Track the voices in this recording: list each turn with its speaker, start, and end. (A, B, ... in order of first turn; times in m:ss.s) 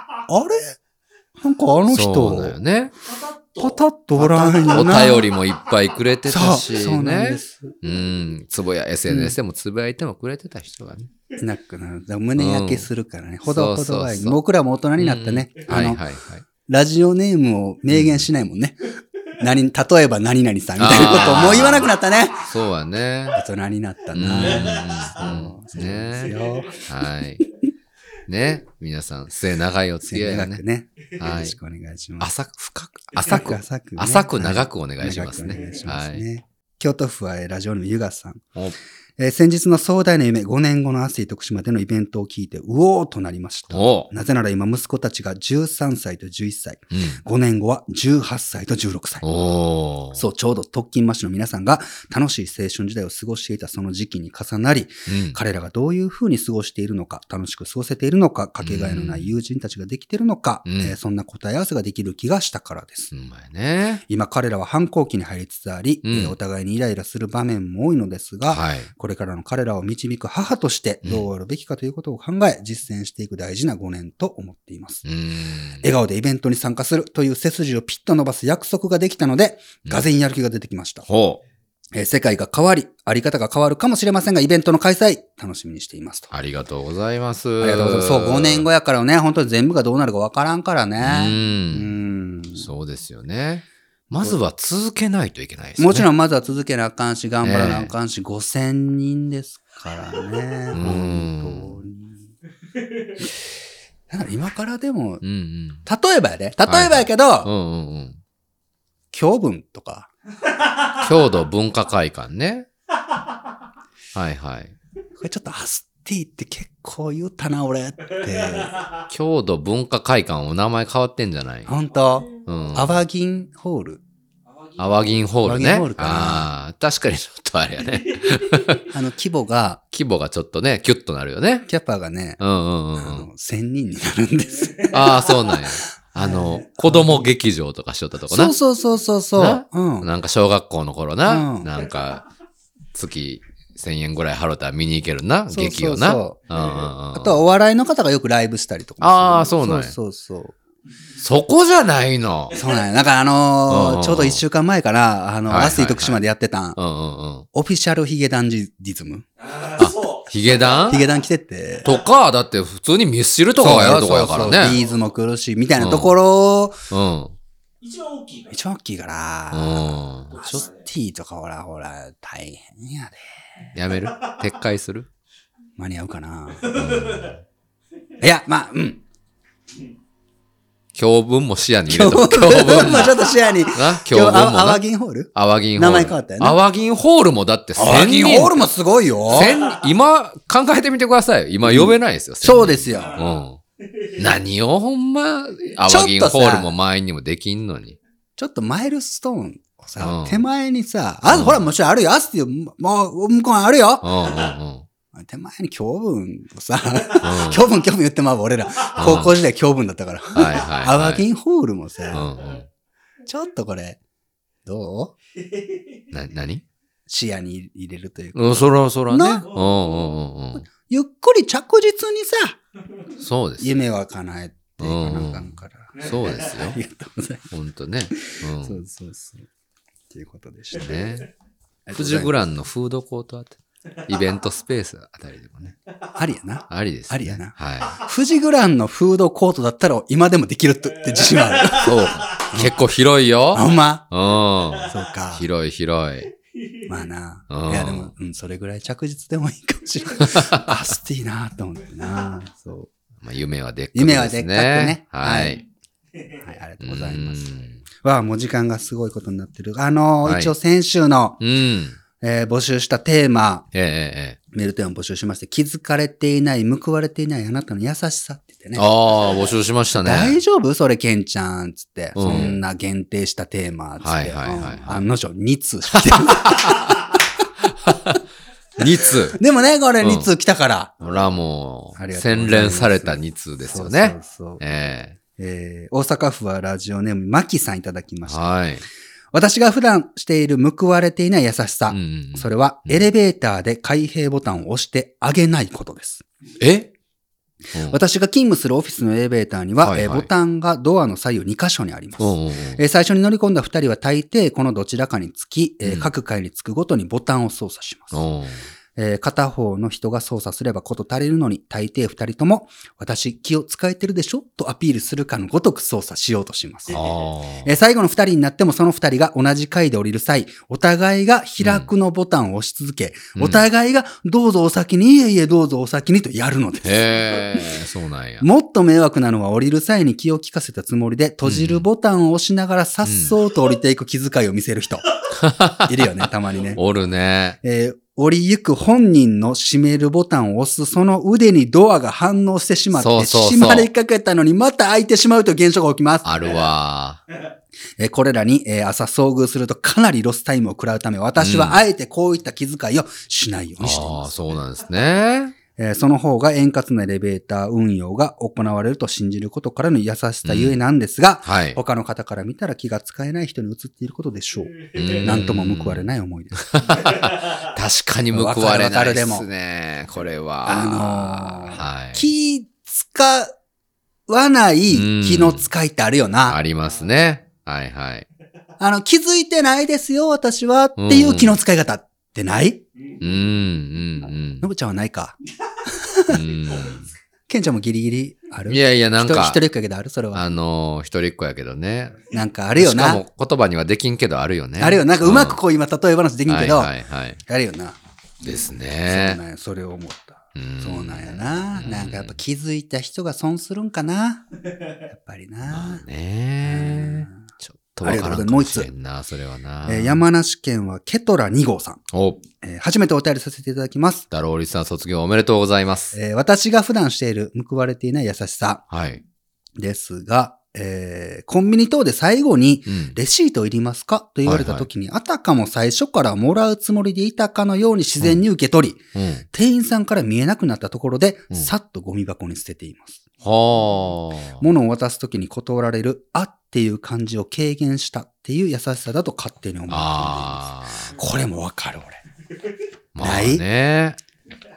0:00.3-0:00.8 A
0:01.4-0:02.6 A
0:01.9-0:02.9 B
0:03.0-0:03.8 C
0:03.6-0:05.2 A
0:04.2-0:11.1 B
0:04.5-0:05.3 C
0:06.3-0:07.7 A
0:09.1-0:09.3 A
0:11.4-0:16.0 A
0:12.4-0:12.9 B
0:13.4-0:14.4 B
0:15.0-0:16.4 B
0:16.7-0:18.8 A
0:17.9-0:18.3 B
0:19.3-0:22.5 A
0:20.8-0:23.4 B
0:23.3-0:26.9 A
0:24.1-0:27.4 B
0:24.4-0:25.3 C
0:26.1-0:26.8 C
0:28.3-0:30.6 B
0:30.0-0:32.3 A
0:31.2-0:31.6 B
0:32.2-0:36.2 B
0:33.2-0:38.5 A
0:39.2-0:49.2 A
0:43.7-0:44.1 B
0:46.9-0:47.2 B
0:49.2-0:50.2 B
0:50.1-1:03.1 A
0:55.1-0:55.4 B
0:58.6-0:59.3 B
1:00.6-1:01.0 B
1:03.1-1:04.0 B
1:04.1-1:15.0 A
1:06.0-1:06.4 B
1:08.5-1:08.9 B
1:15.0-1:15.8 B
1:15.8-1:21.0 A
1:21.1-1:21.4 B
1:21.9-1:26.3 A
1:26.3-1:28.7 B
1:27.6-1:32.7 A
1:31.0-1:31.9 B
1:32.6-1:36.1 B
1:35.8-1:42.3 A
1:37.4-1:37.9 B
1:40.7-1:41.8 B
1:44.1-1:45.2 A
1:45.2-1:45.8 B
1:45.8-1:47.5 A
1:46.6-1:48.2 B
1:49.1-1:50.1 A
1:50.6-1:50.9 C
1:51.0-1:52.7 B
1:54.1-1:54.7 B
1:55.2-1:58.8 A
1:58.4-1:59.0 C
1:59.1-2:01.7 B
2:01.6-2:04.0 A
2:02.1-2:02.4 C
2:02.4-2:03.0 B
2:04.5-2:05.2 C
2:04.8-2:08.9 B
2:05.4-2:06.5 A
2:07.9-2:08.7 C
2:08.9-2:09.8 A
2:09.9-2:11.7 B
2:11.7-2:12.4 A
2:12.4-2:13.3 B
2:13.0-2:15.3 A
2:14.6-2:15.4 C
2:14.9-2:18.5 B
2:16.2-2:17.2 A
2:18.3-2:20.1 A
2:19.4-2:22.2 B
2:21.2-2:21.7 A
2:22.9-2:27.4 B
2:25.5-2:26.4 A
2:26.5-2:26.8 C
2:27.1-2:30.6 A
2:29.0-2:29.9 B
2:31.2-2:32.6 B
2:32.5-2:32.8 C
2:32.5-2:36.8 A
2:33.7-2:34.4 B
2:35.5-2:36.2 B
2:36.8-2:37.5 B
2:37.5-2:39.2 A
2:39.4-2:41.0 C
2:39.8-2:41.1 B
2:40.9-2:41.9 A
2:41.8-2:44.8 B
2:43.6-2:46.8 A
2:44.4-2:45.1 C
2:45.8-2:46.2 B
2:46.9-2:47.3 B
2:47.8-2:48.6 C
2:48.5-2:53.3 A
2:49.5-2:50.5 B
2:50.3-2:50.9 C
2:53.7-2:55.1 B
2:54.0-2:54.4 C
2:55.8-2:56.9 A
2:56.6-2:57.4 C
2:56.7-2:57.4 B
2:58.2-2:59.0 A
3:01.0-3:04.8 B
3:01.9-3:06.6 A
3:05.3-3:08.7 B
3:07.8-3:09.5 A
3:09.3-3:13.6 B
3:09.6-3:09.8 C
3:11.6-3:13.2 A
3:12.9-3:13.3 C
3:13.9-3:14.2 C
3:14.2-3:18.0 B
3:15.8-3:16.7 A
3:18.4-3:24.4 A
3:20.0-3:20.4 B
3:21.3-3:21.7 B
3:24.0-3:24.8 B
3:25.1-3:32.3 A
3:27.2-3:27.6 B
3:29.0-3:29.4 B
3:30.3-3:31.2 B
3:32.1-3:32.6 B
3:33.2-3:34.0 A
3:34.6-3:35.1 A
3:35.5-3:35.8 C
3:36.1-3:36.6 B
3:37.1-3:39.4 A
3:38.3-3:40.6 B
3:39.4-3:40.2 C
3:40.6-3:42.6 A
3:43.2-3:43.8 B
3:43.6-3:47.4 A
3:44.8-3:46.8 B
3:46.0-3:46.6 C
3:47.5-3:48.8 B
3:48.1-3:49.5 A
3:50.1-3:50.9 A
3:50.7-3:51.3 B
3:51.8-3:52.3 A
3:51.9-3:55.8 B
3:56.1-4:02.7 A
3:56.7-3:58.0 B
4:01.1-4:02.0 C
4:01.8-4:06.3 B
4:03.5-4:04.1 A
4:04.7-4:05.0 C
4:04.8-4:05.5 A
4:06.5-4:06.9 C
4:06.9-4:12.9 A
4:07.5-4:08.1 B
4:10.2-4:10.8 B
4:13.2-4:15.6 B
4:13.9-4:15.6 A
4:16.3-4:21.4 A
4:16.8-4:17.8 B
4:20.2-4:20.5 B
4:21.4-4:22.0 B
4:22.2-4:23.7 A
4:23.7-4:24.4 B
4:24.5-4:28.9 A
4:28.7-4:30.4 B
4:29.9-4:37.2 A
4:32.1-4:32.6 B
4:34.0-4:35.0 B
4:35.9-4:37.0 B
4:37.6-4:38.2 B
4:38.8-4:39.4 B
4:39.0-4:40.9 A
4:40.0-4:40.3 B
4:41.0-4:45.2 B
4:42.0-4:44.6 A
4:45.3-4:48.4 A
4:48.2-4:48.8 B
4:49.3-4:56.2 A
4:51.9-4:53.1 B
4:56.6-4:56.9 B
4:57.7-4:58.0 B
4:57.8-5:08.2 A
4:59.8-5:00.3 B
5:02.2-5:02.8 B
5:05.8-5:06.1 B
5:08.1-5:08.6 B
5:09.0-5:17.0 A
5:16.9-5:17.7 B
5:16.9-5:17.2 C
5:17.6-5:27.4 A
5:21.6-5:21.9 B
5:23.4-5:23.6 B
5:26.8-5:28.4 B
5:28.4-5:35.1 A
5:31.4-5:31.8 B
5:33.0-5:33.3 B
5:35.3-5:36.1 B
5:35.8-5:36.8 A
5:36.8-5:37.6 B
5:37.6-5:46.3 A
5:42.9-5:43.9 B
5:46.2-5:47.2 B
5:48.0-5:54.3 A
5:51.4-5:51.8 B
5:53.8-5:55.6 B
5:55.8-6:06.9 A
6:00.4-6:00.8 B
6:01.4-6:01.8 B
6:04.7-6:05.4 C
6:04.9-6:06.1 B
6:06.6-6:12.2 B
6:06.9-6:07.7 C
6:08.3-6:09.4 A
6:10.6-6:13.5 A
6:14.3-6:16.6 A
6:14.9-6:15.7 B
6:16.4-6:18.2 B
6:18.8-6:22.8 A
6:21.0-6:21.6 B
6:23.2-6:24.6 B
6:24.6-6:26.4 A
6:26.3-6:27.0 B
6:26.6-6:27.0 C
6:27.5-6:30.5 A
6:28.7-6:29.6 B
6:30.3-6:32.2 B
6:32.3-6:33.2 A
6:32.8-6:35.6 B
6:34.8-6:36.9 A
6:36.5-6:37.4 B
6:37.4-6:38.0 A
6:38.4-6:39.4 B
6:39.1-6:44.4 A
6:40.5-6:42.4 B
6:45.1-6:46.0 A
6:45.7-6:50.2 B
6:46.6-6:47.4 A
6:48.0-6:48.9 A
6:49.8-6:52.0 A
6:52.1-6:52.4 B
6:52.6-6:54.2 A
6:54.3-6:56.2 B
6:56.1-6:58.8 A
6:58.9-6:59.2 B
6:59.8-7:13.2 A
7:02.9-7:03.2 B
7:04.4-7:04.9 B
7:09.1-7:09.4 B
7:13.4-7:14.6 B
7:14.6-7:22.2 A
7:19.9-7:21.1 B
7:23.1-7:24.2 B
7:23.2-7:23.6 A